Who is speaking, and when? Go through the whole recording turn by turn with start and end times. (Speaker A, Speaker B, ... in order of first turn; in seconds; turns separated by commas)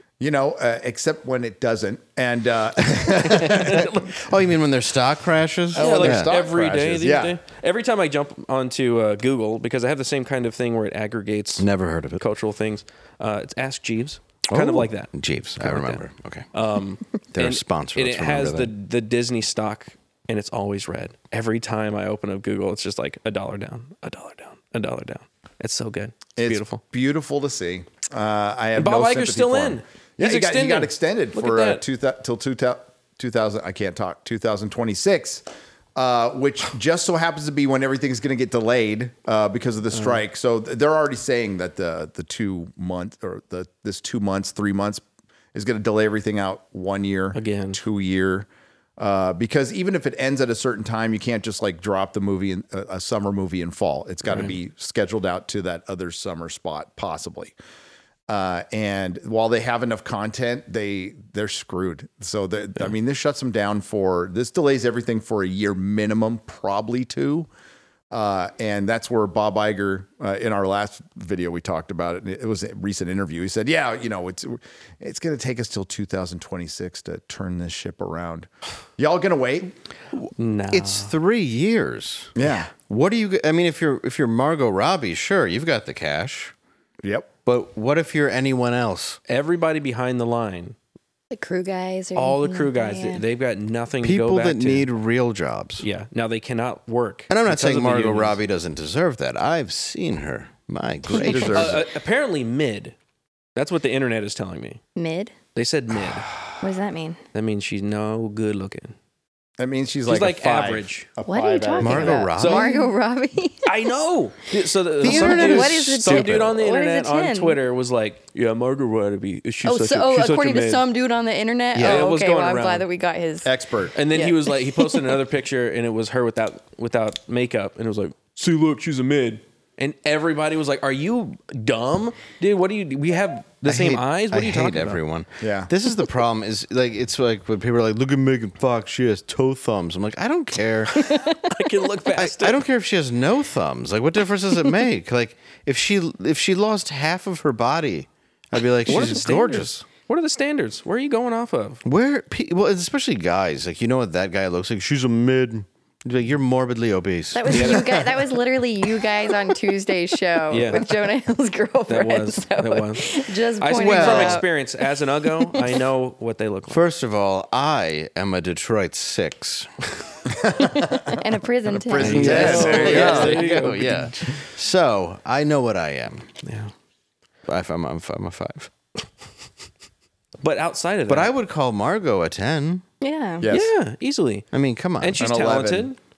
Speaker A: 0.2-4.0, Speaker B: 3.3-4.0, Speaker C: 4.1-6.3, Speaker A: 5.7-7.4, Speaker B: 5.8-11.7, Speaker C: 11.6-12.2, Speaker B: 12.2-26.8, Speaker C: 14.5-16.5, Speaker C: 17.3-18.7, Speaker A: 26.4-35.4, Speaker B: 28.8-31.8, Speaker A: 36.0-45.0, Speaker B: 39.9-40.2, Speaker A: 45.5-57.5, Speaker B: 47.3-47.8, Speaker B: 54.3-54.5, Speaker A: 58.3-67.5, Speaker A: 68.1-79.7, Speaker B: 80.4-81.1, Speaker C: 80.7-86.5, Speaker A: 82.4-82.7, Speaker A: 87.0-87.3, Speaker C: 87.5-89.2, Speaker B: 89.3-90.8, Speaker D: 91.3-93.2, Speaker B: 92.2-94.9, Speaker C: 94.0-95.8, Speaker B: 95.8-98.4, Speaker C: 97.3-101.8, Speaker A: 101.1-101.8, Speaker B: 101.5-103.0, Speaker B: 103.6-104.8, Speaker D: 105.0-105.4, Speaker B: 105.5-106.3, Speaker D: 106.6-107.2, Speaker B: 107.3-109.0, Speaker A: 109.6-112.2, Speaker B: 110.1-111.1, Speaker D: 111.2-113.7, Speaker C: 111.8-112.7, Speaker B: 112.3-112.8, Speaker B: 113.7-120.8, Speaker C: 115.0-116.5, Speaker D: 115.0-117.6, Speaker D: 119.6-125.2, Speaker C: 121.8-122.1, Speaker B: 121.8-122.9, Speaker A: 123.5-124.0, Speaker B: 124.0-135.0, Speaker C: 133.7-141.1, Speaker A: 135.4-135.7, Speaker B: 141.0-142.6, Speaker C: 142.2-149.7, Speaker B: 148.9-151.8, Speaker C: 151.8-158.2, Speaker D: 157.3-164.5, Speaker B: 157.5-157.8, Speaker B: 160.5-160.8, Speaker B: 161.9-166.8, Speaker C: 163.8-164.4, Speaker C: 166.7-169.7, Speaker A: 170.3-173.9, Speaker D: 171.2-173.2, Speaker C: 172.0-176.3, Speaker B: 172.0-174.1, Speaker B: 176.4-176.7, Speaker C: 177.5-178.7, Speaker B: 180.4-181.3, Speaker C: 181.1-182.8, Speaker D: 183.0-183.5, Speaker A: 183.4-183.7, Speaker B: 183.5-184.5, Speaker C: 184.5-185.2, Speaker B: 185.0-186.0, Speaker A: 185.2-185.9